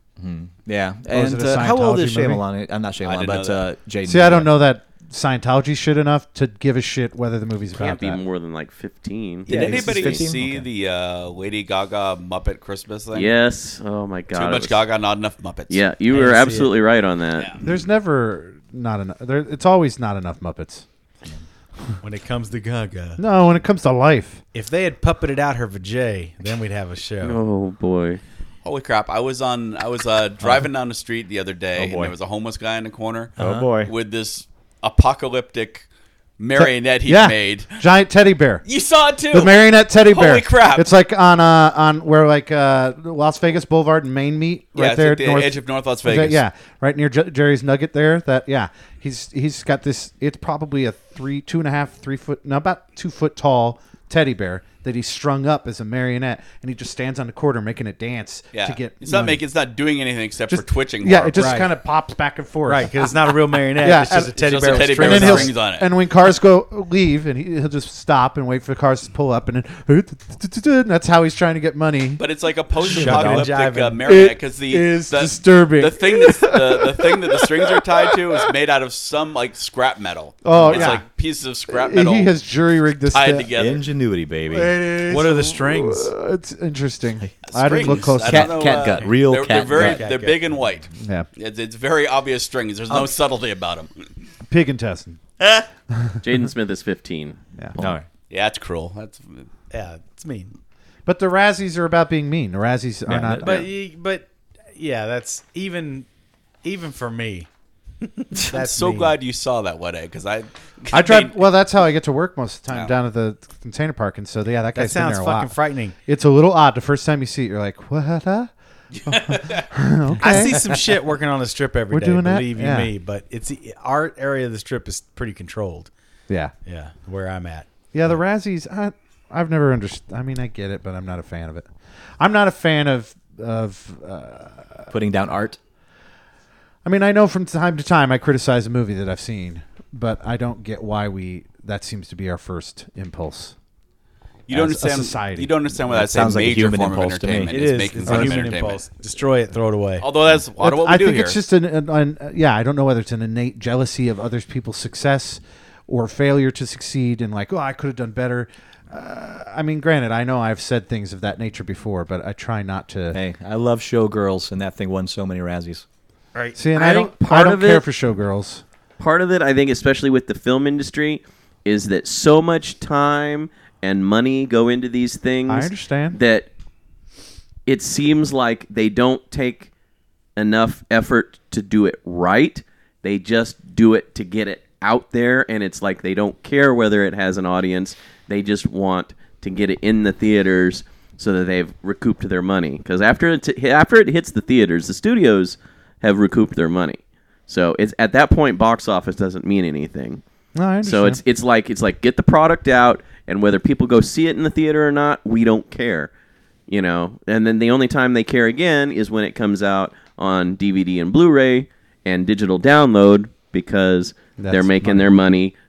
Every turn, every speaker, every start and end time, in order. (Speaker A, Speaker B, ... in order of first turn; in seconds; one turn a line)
Speaker A: 0.2-4.5
Speaker B: 1.1-2.4
Speaker C: 3.0-3.7
Speaker B: 4.0-8.2
Speaker D: 7.8-10.2
Speaker A: 9.5-10.7
Speaker C: 9.5-13.3
Speaker D: 13.1-14.8
Speaker C: 14.3-15.8
Speaker D: 15.7-17.5
Speaker E: 16.1-16.7
Speaker C: 17.4-17.7
Speaker B: 17.6-20.9
Speaker E: 22.0-23.2
Speaker B: 23.2-24.4
Speaker E: 24.5-27.4
Speaker D: 27.2-28.2
Speaker C: 28.6-35.9
Speaker A: 30.4-30.7
Speaker A: 31.7-32.1
Speaker A: 33.4-33.9
Speaker C: 36.4-37.8
Speaker B: 36.5-38.6
Speaker C: 38.6-40.9
Speaker B: 39.3-59.4
Speaker C: 44.7-46.4
Speaker C: 58.5-61.6
Speaker B: 60.5-63.1
Speaker E: 61.4-61.7
Speaker E: 62.7-65.5
Speaker B: 63.8-72.2
Speaker C: 64.4-65.9
Speaker C: 72.2-82.3
Speaker B: 72.8-73.5
Speaker E: 72.8-74.0
Speaker B: 74.0-78.5
Speaker B: 80.4-81.0
Speaker B: 81.7-83.5
Speaker C: 83.1-83.9
Speaker A: 83.5-84.8
Speaker B: 84.5-88.8
Speaker E: 85.1-86.1
Speaker C: 87.5-93.9
Speaker A: 88.2-90.0
Speaker E: 89.7-90.4
Speaker B: 91.0-91.3
Speaker E: 92.9-93.2
Speaker B: 94.5-95.2
Speaker B: 95.9-96.2
Speaker D: 96.2-97.4
Speaker A: 97.8-98.1
Speaker C: 98.3-99.5
Speaker E: 99.7-100.5
Speaker B: 101.0-103.7
Speaker A: 103.1-103.5
Speaker E: 103.4-106.1
Speaker E: 106.6-107.5
Speaker E: 108.2-109.2
Speaker C: 108.5-111.4
Speaker B: 110.9-115.5
Speaker E: 114.7-115.9
Speaker B: 116.0-118.5
Speaker C: 119.0-119.6
Speaker B: 119.1-120.8
Speaker E: 120.2-125.9
Speaker B: 121.9-122.9
Speaker E: 126.7-127.7
Speaker B: 127.9-134.9
Speaker A: 134.9-135.6
Speaker B: 136.8-143.5
Speaker C: 144.5-148.9
Speaker B: 144.5-145.5
Speaker A: 145.9-147.5
Speaker E: 147.5-150.1
Speaker B: 148.1-148.4
Speaker C: 150.0-151.4
Speaker B: 150.6-163.2
Speaker A: 163.1-165.8
Speaker B: 166.6-168.6
Speaker D: 166.7-167.8
Speaker D: 169.0-176.5
Speaker B: 175.5-176.2
Speaker D: 177.7-179.7
Speaker D: 180.4-200.2
Speaker B: 200.5-201.2
Speaker D: 200.8-206.1
Speaker D: 206.7-215.5
Speaker B: 214.4-215.1